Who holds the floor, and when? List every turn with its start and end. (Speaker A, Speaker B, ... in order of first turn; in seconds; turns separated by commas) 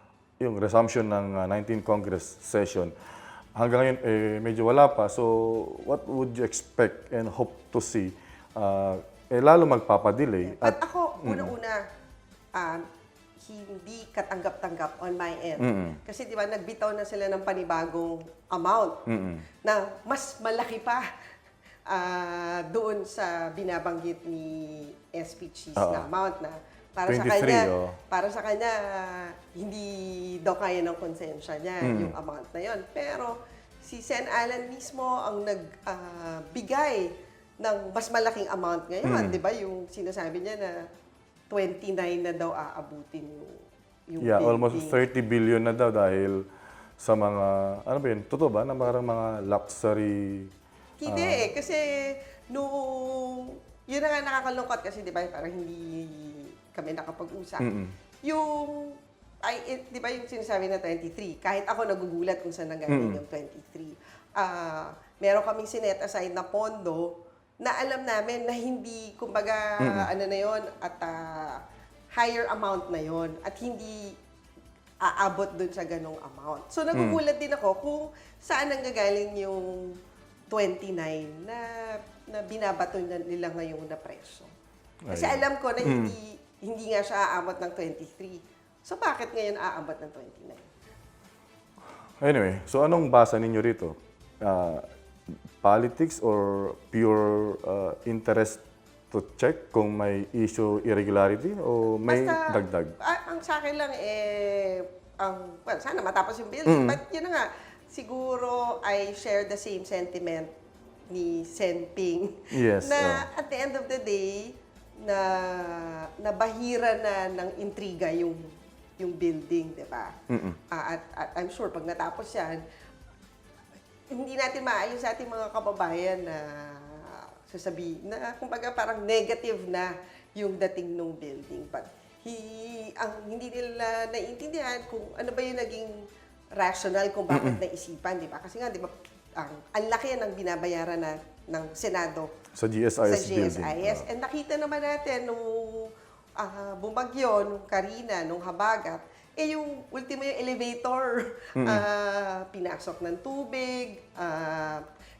Speaker A: 0.4-2.9, Speaker A: 3.5-11.5, Speaker B: 10.4-11.8, Speaker B: 12.5-12.8, Speaker B: 13.4-19.0, Speaker A: 15.6-16.0, Speaker A: 19.1-19.4, Speaker B: 19.6-21.0, Speaker B: 21.9-40.8, Speaker A: 25.8-26.1, Speaker A: 27.1-27.9, Speaker A: 31.8-32.1, Speaker A: 39.0-39.4, Speaker B: 41.5-45.0, Speaker A: 44.2-46.5, Speaker A: 47.0-50.5, Speaker B: 51.0-57.7, Speaker A: 51.0-51.5, Speaker A: 57.6-57.9, Speaker B: 58.2-71.6, Speaker A: 62.9-63.2, Speaker A: 69.8-70.1, Speaker B: 72.2-74.2, Speaker B: 75.0-80.0, Speaker A: 76.9-77.2, Speaker B: 80.5-84.5, Speaker A: 85.0-86.2, Speaker B: 85.1-90.7, Speaker A: 92.2-94.8, Speaker A: 95.6-102.9, Speaker B: 102.1-110.5, Speaker A: 106.7-107.0, Speaker B: 111.1-120.1, Speaker A: 112.5-113.2, Speaker A: 120.3-120.6, Speaker B: 120.7-122.6, Speaker B: 124.1-136.0, Speaker B: 136.6-142.3, Speaker A: 137.3-137.6, Speaker A: 142.5-144.1, Speaker B: 143.0-154.8, Speaker A: 151.6-151.8